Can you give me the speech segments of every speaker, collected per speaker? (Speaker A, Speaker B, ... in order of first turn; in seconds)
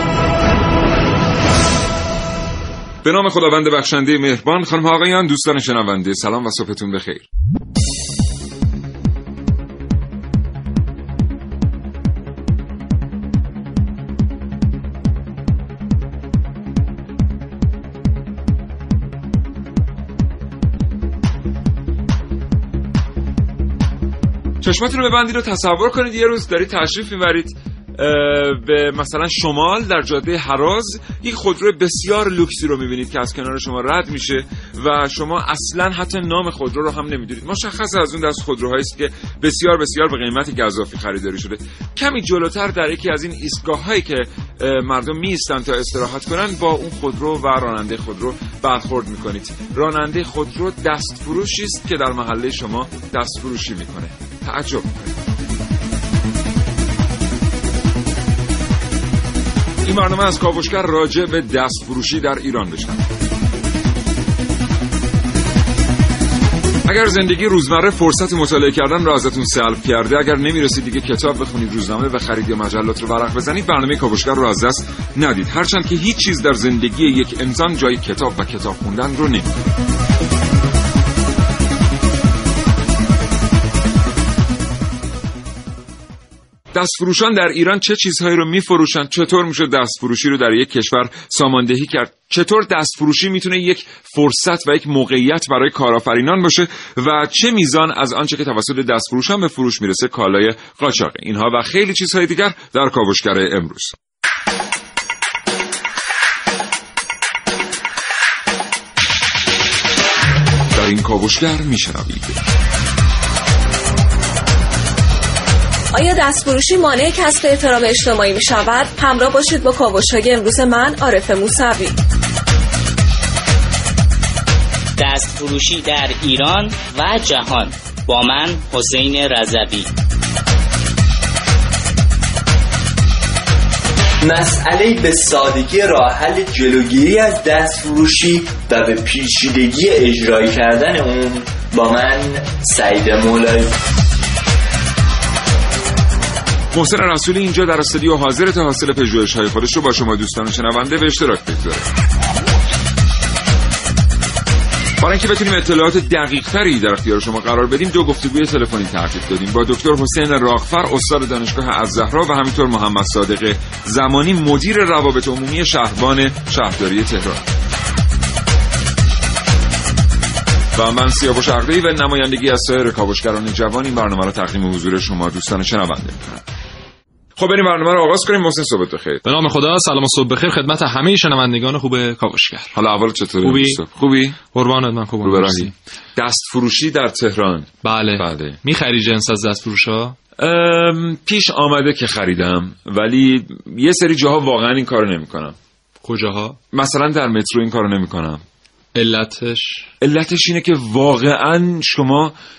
Speaker A: 3.0-7.3, 24.6-55.2, 59.8-63.0, 66.8-79.6, 86.7-103.9, 110.7-112.4, 146.7-151.9, 155.0-167.4, 170.7-176.4, 177.4-179.2, 182.7-184.4, 185.2-188.6, 190.4-195.6, 196.7-198.4, 200.0-202.3
Speaker B: 115.9-122.0
Speaker C: 125.0-129.9
Speaker D: 134.2-143.7
Speaker E: 179.2-182.8, 183.4-183.8, 184.5-185.7, 187.8-190.2, 196.0-196.6, 198.9-199.9